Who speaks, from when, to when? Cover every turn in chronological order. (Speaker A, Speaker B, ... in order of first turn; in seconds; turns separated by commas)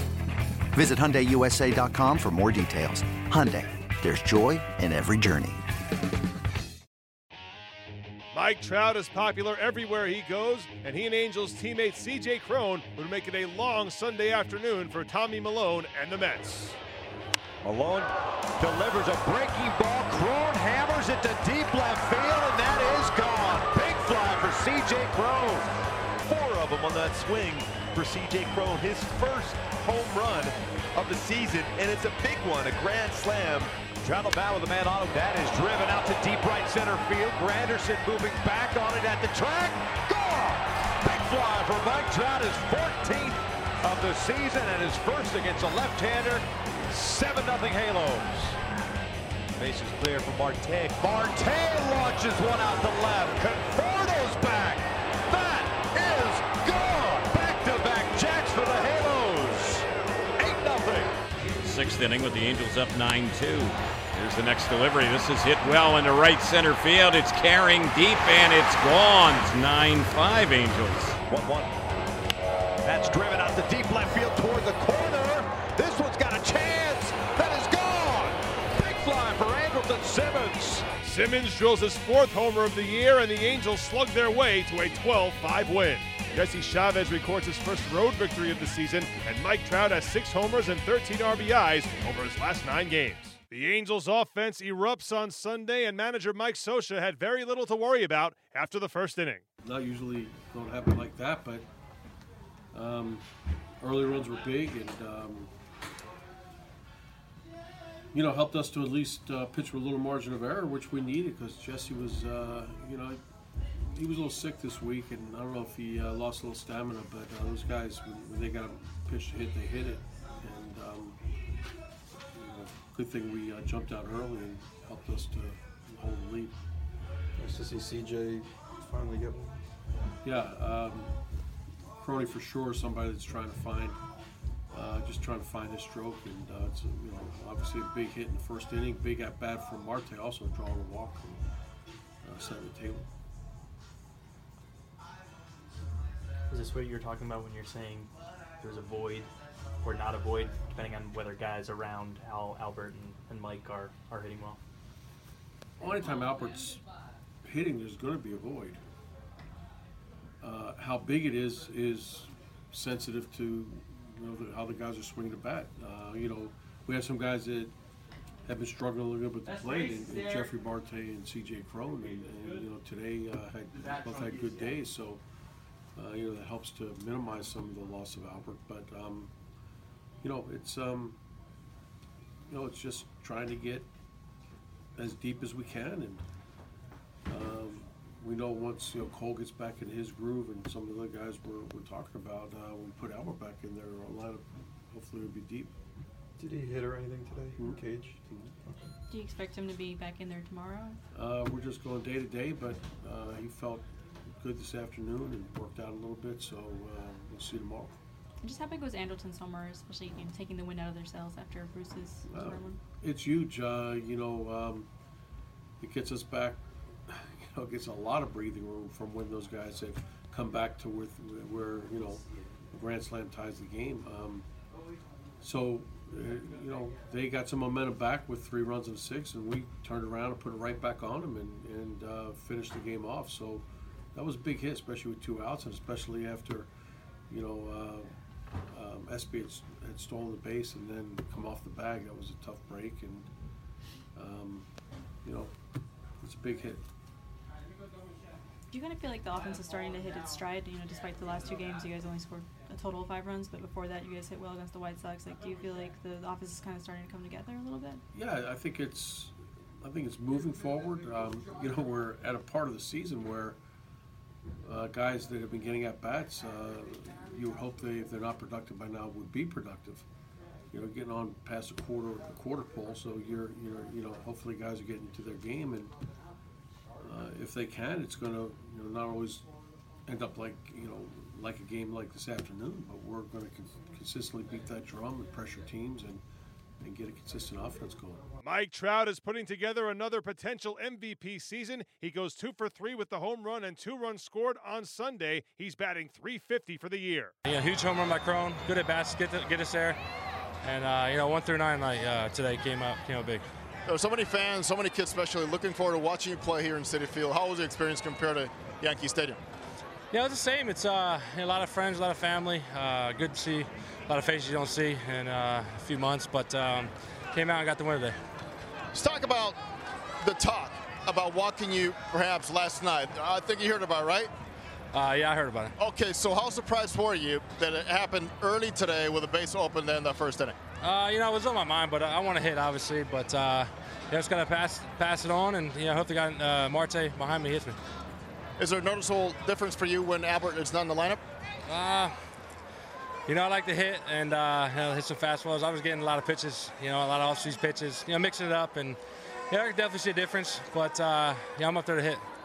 Speaker A: 0.7-5.6, Speaker B: 8.3-16.8, Speaker C: 17.7-18.1, Speaker D: 18.6-25.7, Speaker C: 26.3-34.3, Speaker D: 34.0-48.6, Speaker D: 49.6-59.9, Speaker D: 60.4-61.1, Speaker E: 61.6-71.2, Speaker D: 71.3-71.7, Speaker D: 72.8-80.9, Speaker B: 81.0-99.4, Speaker F: 99.6-101.7, Speaker F: 102.7-103.3, Speaker F: 103.8-105.5, Speaker F: 108.1-113.2, Speaker F: 113.8-121.2, Speaker F: 122.3-126.6, Speaker G: 127.4-129.6, Speaker F: 130.2-131.2, Speaker F: 132.0-134.0, Speaker F: 134.7-141.4, Speaker F: 142.2-143.1, Speaker H: 146.5-154.6, Speaker F: 155.8-156.8, Speaker F: 157.4-158.8, Speaker F: 160.4-167.8, Speaker F: 168.5-175.2, Speaker F: 175.9-179.3, Speaker F: 180.2-181.2, Speaker F: 182.5-183.9, Speaker F: 185.0-186.2, Speaker F: 187.3-195.8, Speaker G: 196.4-198.9, Speaker I: 199.1-201.0, Speaker F: 201.1-207.9, Speaker I: 208.4-212.8, Speaker F: 212.3-214.9, Speaker F: 215.8-224.5, Speaker F: 225.4-236.7, Speaker F: 237.3-238.1, Speaker F: 238.7-243.3, Speaker F: 244.2-244.7, Speaker F: 245.2-245.5, Speaker F: 246.2-246.8, Speaker I: 248.7-258.0, Speaker F: 258.1-263.6, Speaker F: 264.6-270.1, Speaker F: 270.7-275.9, Speaker F: 277.0-279.5, Speaker F: 280.1-286.2, Speaker F: 286.8-288.2, Speaker B: 288.4-297.3, Speaker J: 297.4-300.0, Speaker J: 300.6-303.4, Speaker K: 303.9-309.4, Speaker J: 310.1-318.2, Speaker K: 318.9-319.6, Speaker K: 320.2-324.3, Speaker J: 324.9-325.7, Speaker K: 325.8-330.6, Speaker J: 330.8-337.8, Speaker K: 338.6-341.2, Speaker J: 341.7-342.1, Speaker J: 343.3-349.0, Speaker J: 349.5-352.2